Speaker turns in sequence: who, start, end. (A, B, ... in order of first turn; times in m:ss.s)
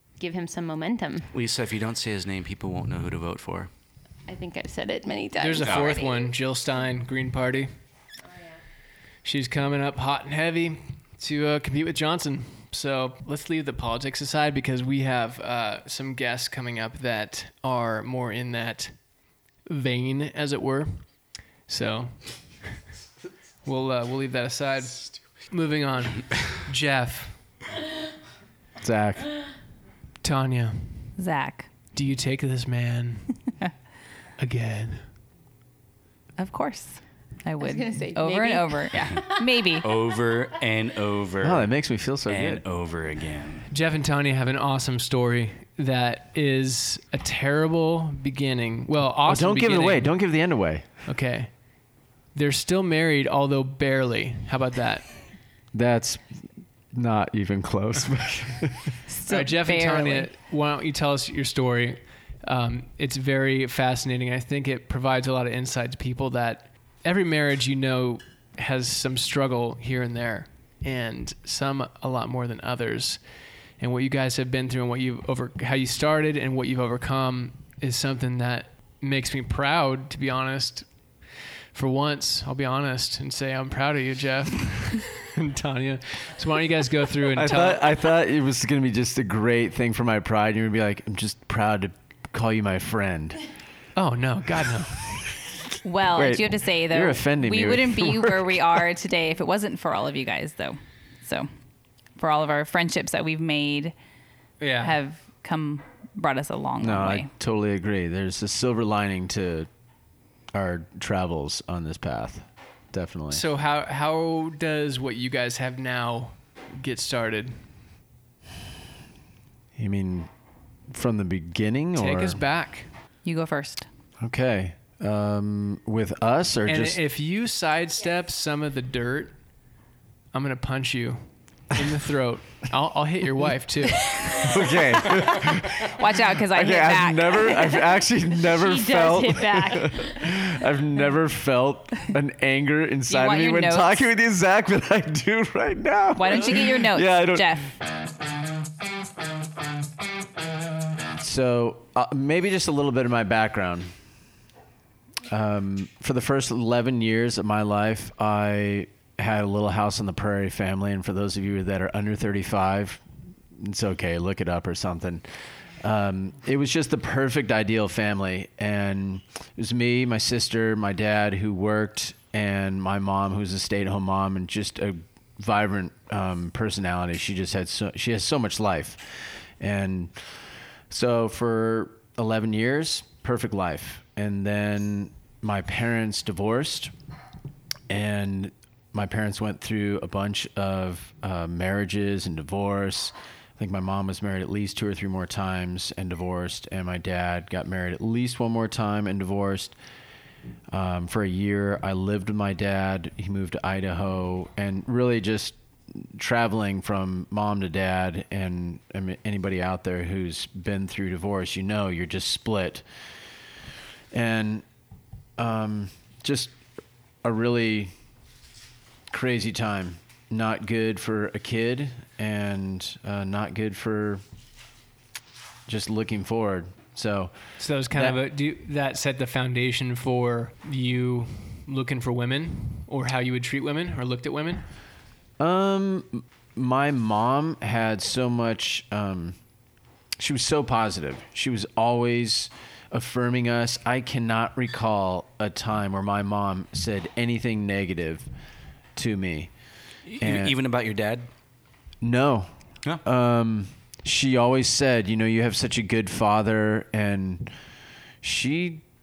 0:00.2-0:01.3 A
0:01.3-0:03.7 B
0:04.3-0:06.4 A
0:05.4-0:07.7 C
0:05.6-0:06.0 B
0:09.2-0:18.9 C
0:19.6-0:21.1 C
0:21.7-0:22.3 C
0:23.6-0:27.4 C
0:28.8-0:29.3 D
0:30.2-0:31.1 C
0:31.2-0:31.7 E
0:31.9-0:33.5 C
0:34.4-0:35.0 C
0:36.4-0:39.9 E
0:37.6-0:39.4 A
0:39.8-0:41.7 B
0:41.4-0:42.6 D
0:42.3-0:43.6 B
0:43.7-0:50.2 C
0:49.2-0:50.9 D
0:51.1-0:51.5 C
0:52.3-0:55.1 C
0:55.7-0:58.9 D
0:59.1-1:00.3 E
0:59.2-1:13.2 C
1:13.8-1:20.9 C
1:21.7-1:27.9 C
1:27.3-1:33.4 D
1:34.0-1:35.3 C
1:35.8-1:41.5 E
1:36.1-1:38.8 D
1:42.2-1:43.9 E
1:44.6-1:45.0 C
1:44.8-1:47.3 E
1:46.8-1:49.7 D
1:50.5-1:53.4 D
1:53.3-1:57.6 C
1:59.8-2:00.3 D
2:00.9-2:02.4 D
2:02.0-2:02.9 C
2:03.2-2:03.9 E
2:04.2-2:07.0 D
2:06.6-2:09.4 C
2:10.3-2:14.5 C
2:14.4-2:15.9 D
2:15.9-2:17.6 E
2:16.4-2:27.7 D
2:18.4-2:20.3 A
2:23.1-2:24.1 E
2:26.1-2:27.7 E
2:31.1-2:33.9 D
2:35.3-2:43.0 D
2:43.5-2:45.2 D
2:45.8-3:00.4 D
3:00.9-3:06.9 D
3:07.9-3:19.7 D
3:20.7-3:32.8 D
3:34.1-3:34.6 D
3:35.4-3:36.6 D
3:37.2-3:37.9 D
3:39.1-3:44.2 D
3:45.7-3:47.3 D
3:47.6-3:54.6 C
3:47.9-3:48.2 D
3:55.4-3:59.4 D
4:00.2-4:08.3 D
4:09.0-4:09.5 D
4:10.1-4:11.3 B
4:10.2-4:10.6 D
4:12.0-4:12.5 D
4:13.0-4:17.5 D
4:18.2-4:18.8 D